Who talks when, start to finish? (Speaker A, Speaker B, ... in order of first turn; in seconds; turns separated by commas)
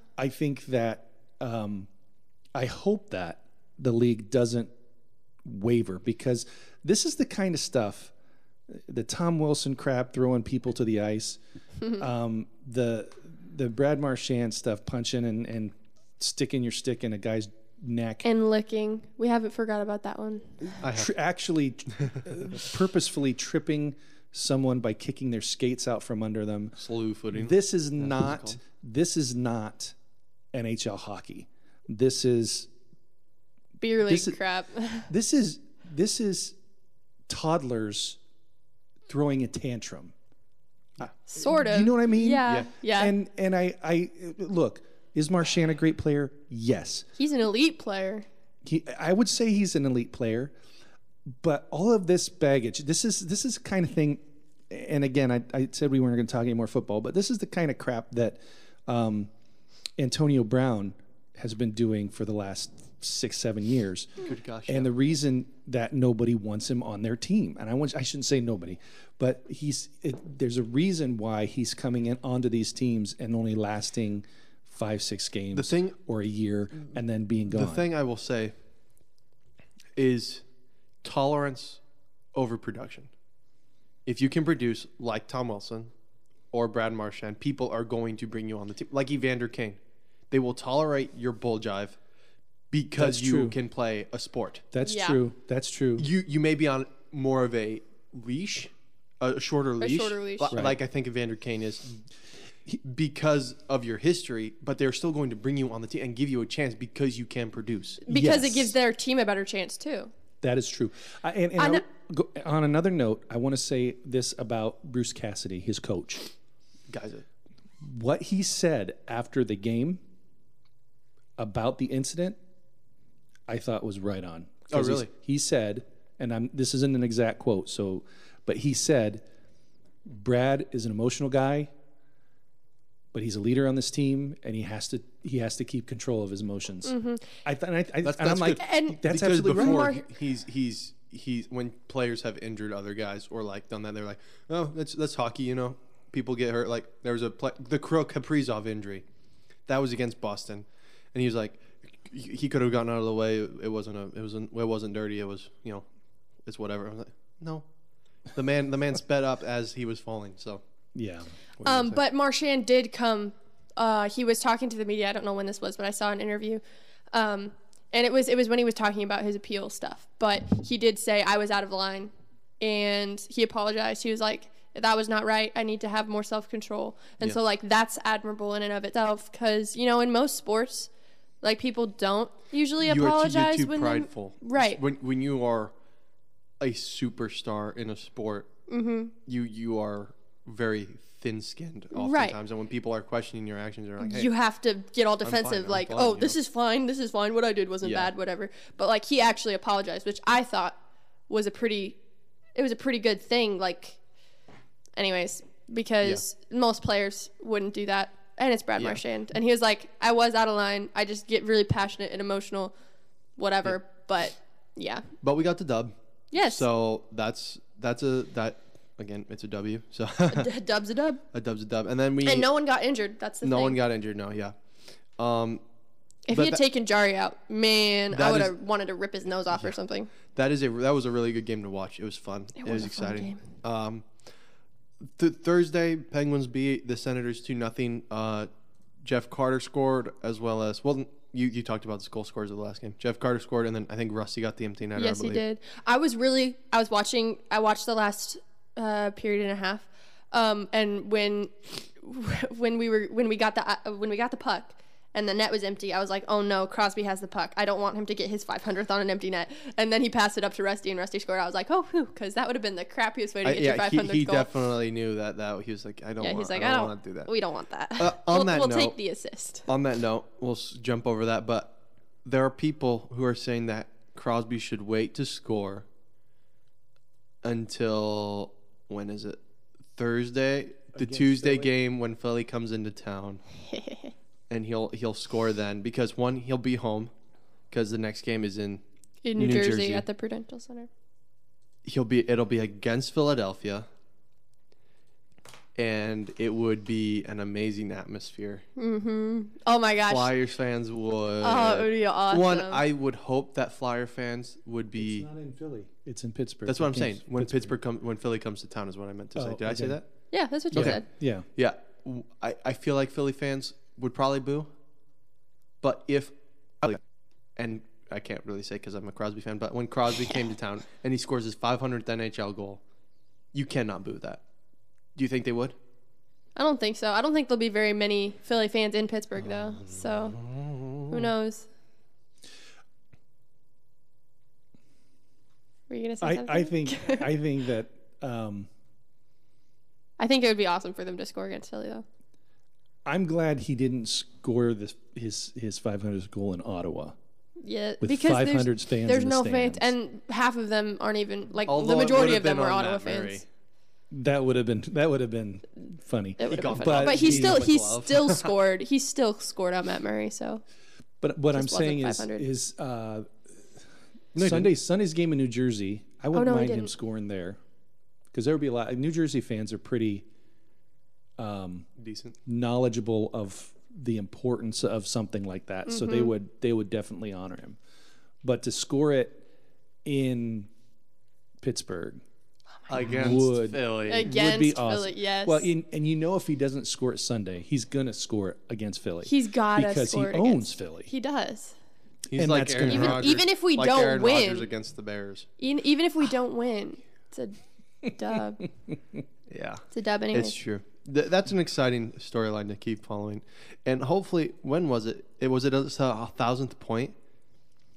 Speaker A: 0.2-1.9, Speaker A: 2.5-4.7, Speaker A: 5.5-8.1, Speaker A: 8.7-11.4, Speaker A: 12.0-18.3, Speaker B: 18.2-20.5, Speaker C: 20.8-21.1, Speaker A: 20.9-26.8, Speaker C: 26.8-28.6, Speaker A: 27.3-29.9, Speaker A: 30.5-32.7, Speaker B: 33.8-35.1, Speaker A: 34.1-34.4, Speaker A: 35.1-36.6, Speaker A: 37.3-38.2, Speaker A: 39.1-40.1, Speaker A: 41.1-47.1, Speaker B: 41.3-43.1, Speaker B: 47.2-48.3, Speaker A: 48.6-50.5, Speaker A: 51.3-59.3, Speaker A: 60.0-77.9, Speaker C: 64.2-64.9, Speaker C: 75.5-76.0, Speaker C: 77.5-78.5, Speaker C: 80.0-80.4, Speaker C: 81.0-81.8, Speaker C: 82.3-83.1, Speaker C: 84.1-85.9, Speaker C: 86.5-89.8, Speaker C: 90.3-92.0, Speaker C: 92.7-94.7, Speaker A: 93.0-93.6, Speaker A: 94.7-96.1, Speaker B: 94.8-95.2, Speaker C: 96.0-102.0, Speaker B: 99.8-100.6, Speaker A: 100.5-100.8, Speaker C: 102.8-108.0, Speaker B: 108.1-110.1, Speaker A: 108.1-108.8, Speaker A: 110.4-116.3, Speaker B: 111.6-111.8, Speaker C: 116.9-117.2, Speaker A: 117.8-120.0, Speaker A: 121.4-122.4, Speaker A: 123.5-129.2, Speaker C: 124.7-125.1, Speaker A: 130.1-131.7, Speaker A: 133.1-140.0, Speaker B: 136.8-137.3, Speaker C: 138.0-149.0, Speaker B: 138.6-140.1, Speaker C: 149.7-155.8, Speaker C: 156.4-157.7, Speaker C: 158.3-160.6, Speaker A: 160.9-161.9, Speaker B: 161.6-166.6, Speaker B: 167.1-180.9, Speaker B: 181.4-184.8, Speaker C: 182.8-185.7, Speaker C: 186.6-188.5, Speaker B: 188.7-189.1, Speaker C: 189.3-194.3, Speaker B: 191.9-192.4, Speaker B: 194.0-200.8, Speaker C: 195.2-196.4, Speaker C: 197.8-198.1, Speaker B: 201.3-202.0, Speaker B: 202.6-204.0, Speaker B: 205.0-212.7, Speaker B: 213.4-215.0, Speaker C: 215.2-220.5, Speaker B: 216.3-216.7, Speaker B: 220.3-221.2, Speaker C: 221.3-222.5, Speaker B: 222.2-223.8, Speaker C: 223.4-224.6, Speaker C: 225.2-225.6, Speaker B: 226.3-230.1, Speaker C: 226.3-226.6, Speaker C: 228.1-228.5, Speaker C: 230.3-234.1, Speaker B: 232.6-233.4, Speaker C: 235.2-238.5, Speaker C: 239.0-245.4, Speaker B: 245.0-264.5, Speaker C: 263.4-267.3, Speaker B: 266.2-269.7, Speaker C: 268.0-269.0, Speaker C: 269.7-275.9, Speaker C: 277.4-279.4, Speaker C: 279.9-283.4, Speaker A: 280.9-281.7, Speaker B: 283.7-284.1, Speaker C: 284.5-287.1, Speaker C: 287.7-288.8, Speaker B: 289.2-290.9, Speaker C: 289.4-290.1, Speaker C: 291.9-293.9, Speaker C: 295.8-298.6, Speaker B: 298.8-300.3, Speaker C: 300.1-305.3, Speaker B: 301.4-302.8, Speaker A: 305.0-307.8, Speaker C: 306.7-310.1, Speaker A: 309.4-310.0, Speaker B: 310.3-311.1, Speaker C: 310.7-311.1, Speaker A: 310.7-311.5, Speaker C: 311.6-314.7, Speaker C: 315.8-317.0, Speaker C: 317.6-322.8, Speaker C: 323.5-324.4, Speaker C: 325.2-325.8, Speaker B: 326.6-330.4, Speaker C: 329.7-331.3, Speaker B: 331.1-331.7, Speaker B: 335.9-337.3, Speaker A: 336.2-338.7, Speaker B: 340.2-342.1, Speaker A: 343.1-347.2, Speaker B: 347.6-353.4, Speaker A: 348.0-349.9, Speaker C: 351.7-353.4, Speaker A: 354.1-357.7, Speaker B: 356.4-360.6, Speaker C: 356.5-358.5, Speaker A: 361.2-363.3, Speaker B: 361.5-362.5, Speaker C: 364.4-364.7, Speaker A: 364.4-367.6, Speaker B: 366.3-366.9, Speaker A: 368.3-370.3, Speaker A: 371.4-371.9, Speaker C: 372.0-372.4, Speaker A: 372.5-377.8, Speaker B: 375.9-376.3, Speaker A: 378.4-379.4, Speaker A: 380.1-380.7, Speaker A: 381.6-382.2, Speaker C: 382.9-384.3, Speaker A: 383.1-391.1, Speaker B: 384.1-385.7, Speaker B: 389.2-391.8, Speaker C: 392.3-395.5, Speaker A: 392.4-393.4, Speaker B: 392.9-394.7, Speaker B: 395.6-398.7, Speaker C: 399.5-407.1, Speaker B: 399.9-400.6